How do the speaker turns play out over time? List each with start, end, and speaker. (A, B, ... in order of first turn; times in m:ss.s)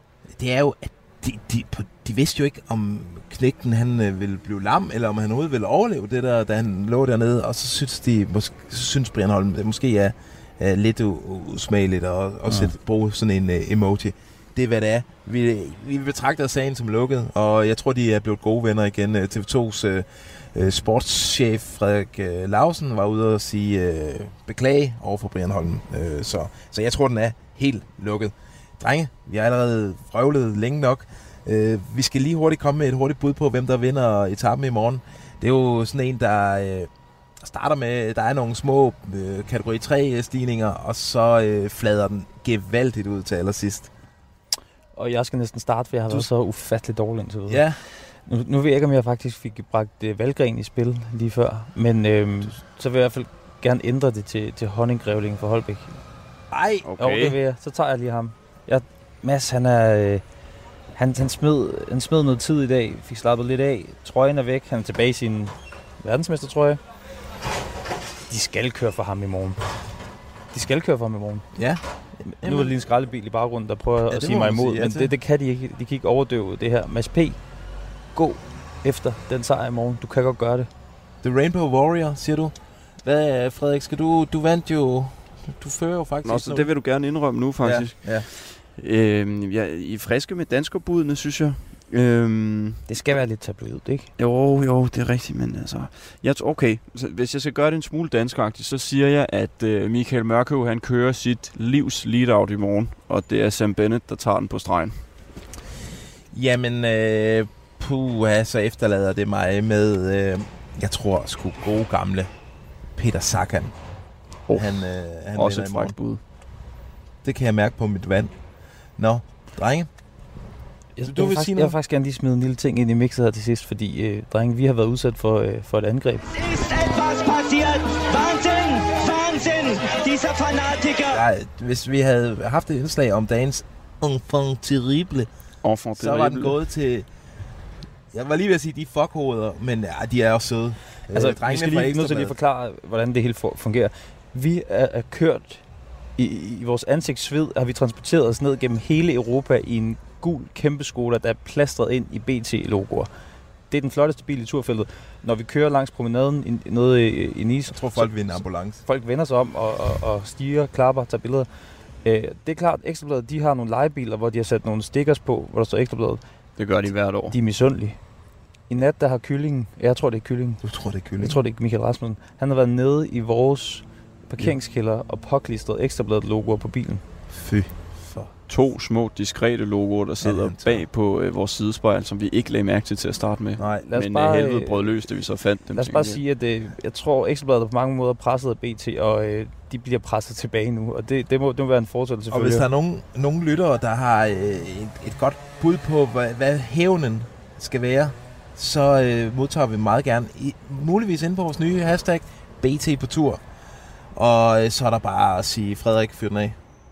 0:00.3-0:43.9 A
0:12.5-0:12.7 B
0:45.0-0:56.0 B
0:47.5-0:47.8 A
0:56.5-0:56.9 A
0:56.8-0:57.4 C
0:57.0-1:00.2 B
1:01.0-1:06.8 B
1:08.3-1:09.6 B
1:10.5-1:11.5 B
1:11.5-1:12.7 A
1:12.3-1:17.4 B
1:14.1-1:15.1 A
1:18.1-1:20.7 B
1:21.2-1:26.7 A
1:26.2-1:32.8 C
1:27.6-1:28.3 A
1:32.9-1:34.1 B
1:34.2-1:45.0 C
1:46.3-1:52.3 A
1:53.0-1:53.7 A
1:54.5-1:56.2 C
1:54.5-1:56.0 A
1:57.2-1:58.3 A
1:59.0-1:59.9 A
2:01.0-2:06.3 B
2:01.0-2:01.7 A
2:06.3-2:11.2 D
2:11.1-2:15.3 A
2:15.6-2:16.5 C
2:16.0-2:17.1 A
2:18.1-2:22.3 A
2:21.1-2:25.6 B
2:26.2-2:33.1 B
2:33.7-2:41.5 B
2:37.7-2:38.8 A
2:42.0-2:46.2 B
2:46.6-2:47.3 C
2:47.3-2:48.0 B
2:48.7-2:50.6 B
2:50.6-2:51.4 A
2:51.2-2:57.0 B
2:57.3-2:58.3 A
2:58.5-3:06.2 C
3:00.2-3:00.9 A
3:03.6-3:03.8 A
3:03.8-3:04.9 B
3:05.7-3:12.6 B
3:12.3-3:23.4 A
3:24.1-3:26.6 A